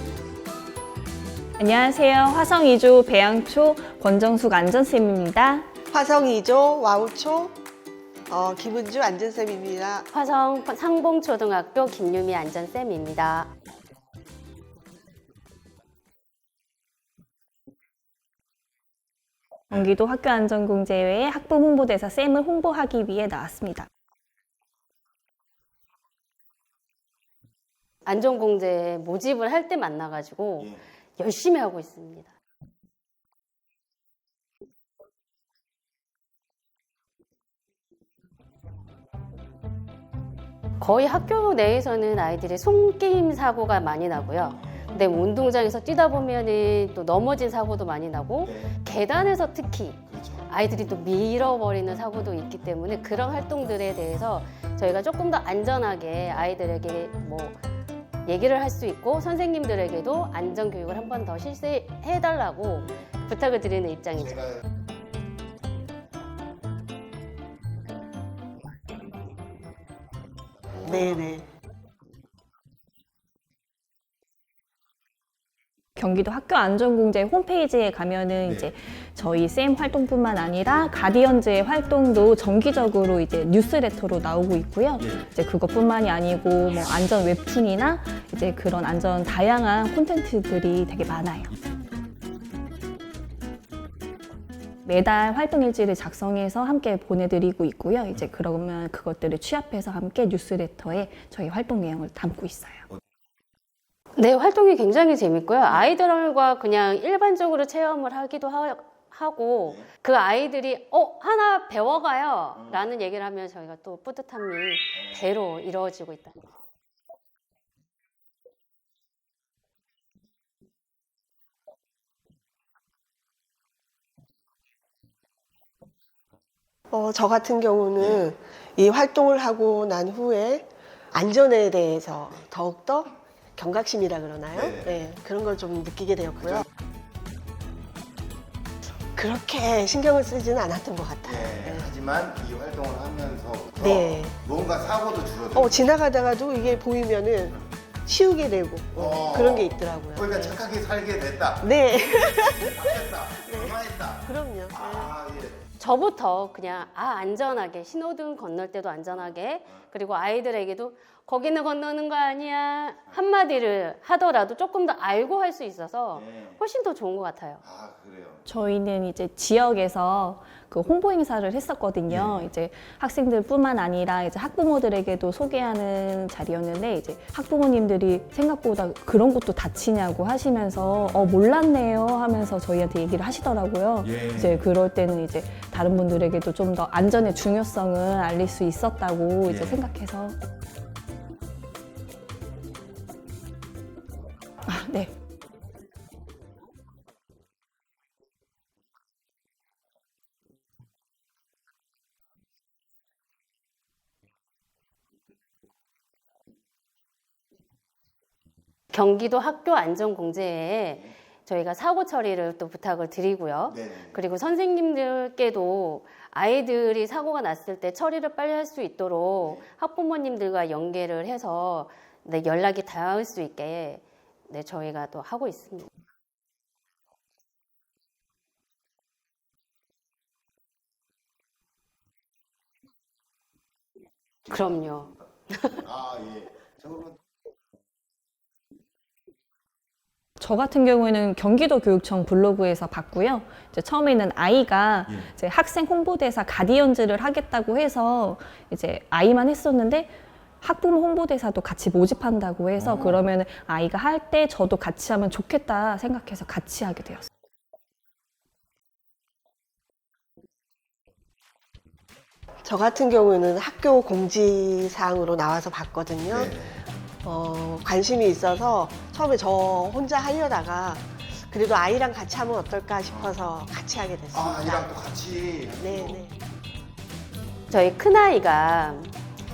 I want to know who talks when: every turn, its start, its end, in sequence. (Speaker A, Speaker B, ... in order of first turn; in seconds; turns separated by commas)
Speaker A: 1.6-5.7, Speaker B: 5.9-7.5, Speaker B: 8.3-10.1, Speaker C: 10.1-13.5, Speaker A: 19.7-23.9, Speaker C: 28.1-32.3, Speaker C: 40.8-57.6, Speaker D: 48.4-48.7, Speaker D: 50.1-50.5, Speaker C: 58.3-64.5, Speaker D: 70.7-71.2, Speaker B: 70.8-71.5, Speaker A: 76.0-91.5, Speaker A: 94.8-102.9, Speaker C: 104.2-116.4, Speaker B: 126.9-136.7, Speaker D: 134.6-134.9, Speaker B: 139.1-141.9, Speaker D: 141.2-145.8, Speaker B: 143.8-144.4, Speaker B: 145.5-150.6, Speaker D: 149.0-155.6, Speaker B: 151.6-155.1, Speaker C: 155.8-167.6, Speaker D: 166.1-166.6, Speaker D: 167.6-168.4, Speaker A: 168.5-190.4, Speaker D: 172.1-172.5, Speaker D: 184.1-184.6, Speaker D: 189.5-189.8, Speaker A: 194.7-195.1, Speaker C: 208.9-225.9, Speaker D: 213.7-214.1, Speaker D: 234.5-235.1, Speaker C: 234.5-235.9, Speaker D: 235.8-237.2, Speaker A: 240.4-250.1, Speaker A: 250.6-257.3, Speaker D: 252.8-253.2, Speaker B: 262.6-266.6, Speaker D: 266.3-266.8, Speaker B: 267.2-274.9, Speaker D: 274.3-276.2, Speaker B: 275.8-276.4, Speaker C: 277.7-279.2